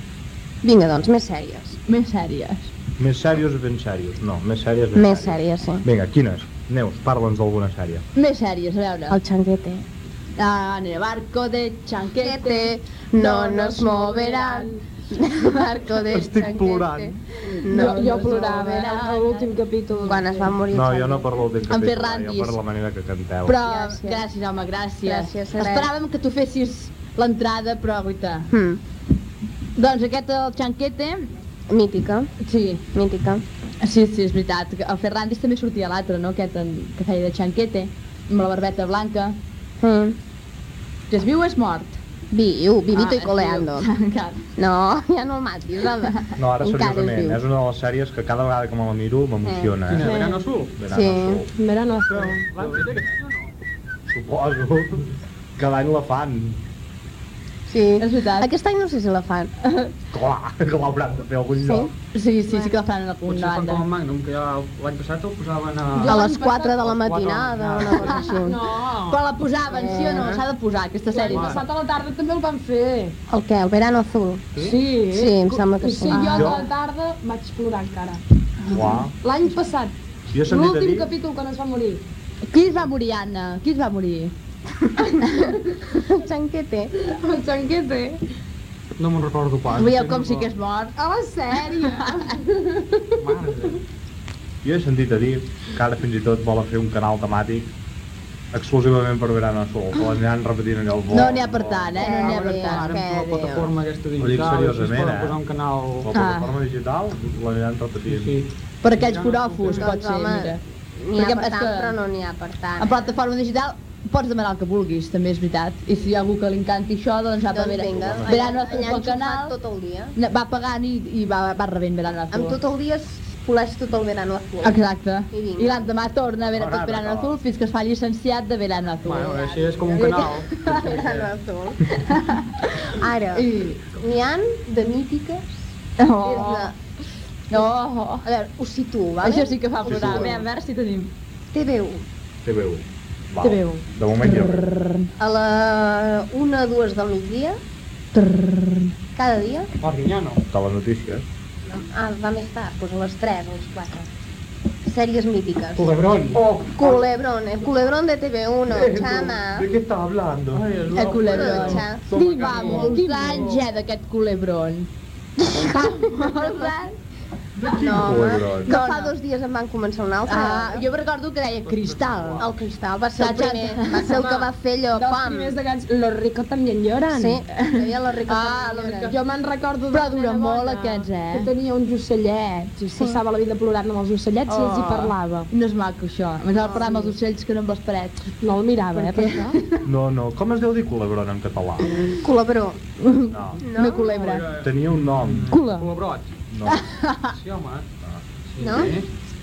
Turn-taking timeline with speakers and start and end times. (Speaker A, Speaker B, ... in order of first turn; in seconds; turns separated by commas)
Speaker A: 0.6-1.8, Speaker B: 1.9-2.7, Speaker C: 3.0-8.0, Speaker A: 4.9-5.8, Speaker B: 8.1-9.2, Speaker A: 9.1-9.8, Speaker B: 10.4-14.5, Speaker A: 12.2-18.6, Speaker D: 14.2-14.7, Speaker C: 15.9-17.2, Speaker B: 17.6-19.5, Speaker D: 17.6-20.6, Speaker A: 20.0-21.3, Speaker C: 20.7-23.6, Speaker B: 21.7-22.6, Speaker B: 23.4-28.5, Speaker A: 23.6-24.3, Speaker A: 25.0-25.9, Speaker A: 28.5-28.8, Speaker B: 29.8-31.3, Speaker A: 31.7-32.3, Speaker B: 32.4-32.8, Speaker A: 32.9-33.4, Speaker B: 33.8-39.4, Speaker A: 39.8-40.2, Speaker B: 41.1-42.0, Speaker A: 42.3-43.9, Speaker B: 42.9-44.4, Speaker A: 44.6-47.4, Speaker C: 46.4-50.2, Speaker A: 49.4-49.7, Speaker E: 49.9-50.7, Speaker D: 50.0-50.4, Speaker C: 50.7-51.5, Speaker A: 50.9-51.4, Speaker D: 51.5-52.5, Speaker E: 52.1-53.5, Speaker C: 52.6-52.8, Speaker C: 54.1-56.6, Speaker A: 57.7-59.5, Speaker B: 58.0-58.5, Speaker B: 59.6-59.9, Speaker C: 60.1-61.9, Speaker A: 61.5-61.9, Speaker B: 62.1-63.8, Speaker E: 63.2-66.2, Speaker D: 65.9-66.8, Speaker A: 66.0-68.6, Speaker E: 66.8-68.2, Speaker D: 68.0-69.2, Speaker B: 69.1-71.6, Speaker A: 69.7-70.4, Speaker D: 69.8-70.2, Speaker D: 71.1-73.1, Speaker E: 71.3-71.6, Speaker A: 73.3-74.5, Speaker E: 74.5-74.8, Speaker D: 74.6-78.2, Speaker A: 75.1-76.5, Speaker B: 76.1-76.6, Speaker C: 76.2-76.7, Speaker C: 78.7-79.1, Speaker D: 79.2-79.9, Speaker C: 80.3-81.1, Speaker D: 80.4-82.0, Speaker B: 82.5-84.3, Speaker A: 85.9-86.9, Speaker D: 87.1-88.2, Speaker E: 89.0-90.5, Speaker B: 89.7-90.9, Speaker D: 91.0-93.2, Speaker B: 91.9-92.2, Speaker E: 93.2-93.8, Speaker C: 94.6-97.7, Speaker C: 98.5-102.0, Speaker B: 101.1-103.0, Speaker A: 102.0-103.7, Speaker E: 102.2-106.1, Speaker C: 104.2-105.4, Speaker C: 106.0-108.4, Speaker B: 106.1-106.5, Speaker E: 108.0-109.9, Speaker B: 108.8-110.6, Speaker A: 109.6-113.0, Speaker B: 111.1-112.0, Speaker B: 112.8-119.5, Speaker A: 117.5-120.1, Speaker C: 117.9-118.5, Speaker B: 120.2-122.6, Speaker A: 122.3-124.8, Speaker B: 124.6-129.3, Speaker A: 125.3-125.9, Speaker C: 126.5-127.3, Speaker E: 129.0-131.3, Speaker A: 129.1-131.9, Speaker B: 132.1-132.8, Speaker A: 132.9-136.7, Speaker B: 133.3-133.8, Speaker B: 136.0-136.7, Speaker B: 137.5-138.2, Speaker A: 138.2-140.3, Speaker B: 139.2-141.1, Speaker C: 139.8-140.4, Speaker A: 141.5-142.0, Speaker C: 142.4-144.6, Speaker D: 143.4-143.8, Speaker B: 144.3-145.1, Speaker A: 145.2-147.6, Speaker A: 149.1-149.7, Speaker E: 149.8-150.4, Speaker C: 150.5-151.2, Speaker A: 151.6-154.1, Speaker A: 154.8-155.9, Speaker E: 155.8-156.4, Speaker C: 156.3-157.0, Speaker A: 156.7-159.7, Speaker C: 158.7-160.8, Speaker E: 160.5-161.9, Speaker B: 160.9-164.9, Speaker A: 161.0-162.1, Speaker C: 162.1-162.9, Speaker D: 162.1-163.6, Speaker A: 165.5-166.9, Speaker B: 165.5-166.9, Speaker C: 167.6-168.7, Speaker A: 167.7-170.8, Speaker B: 168.7-169.1, Speaker B: 170.2-172.4, Speaker E: 171.6-172.5, Speaker A: 172.4-175.5, Speaker B: 173.2-174.2, Speaker D: 174.1-177.4, Speaker A: 177.1-179.1, Speaker B: 177.6-179.1, Speaker D: 178.9-185.5, Speaker B: 179.9-181.5, Speaker A: 182.9-183.2, Speaker B: 184.6-188.3, Speaker D: 186.7-187.1, Speaker D: 188.4-189.6, Speaker B: 188.9-189.8, Speaker C: 189.8-191.9, Speaker A: 192.0-192.8, Speaker B: 193.0-194.4, Speaker C: 193.3-193.6, Speaker A: 193.6-194.1, Speaker E: 194.1-196.3, Speaker C: 194.6-195.5, Speaker D: 195.5-195.9, Speaker C: 196.5-196.8, Speaker B: 196.7-197.3, Speaker E: 197.3-197.8, Speaker E: 198.5-199.1, Speaker A: 198.6-199.0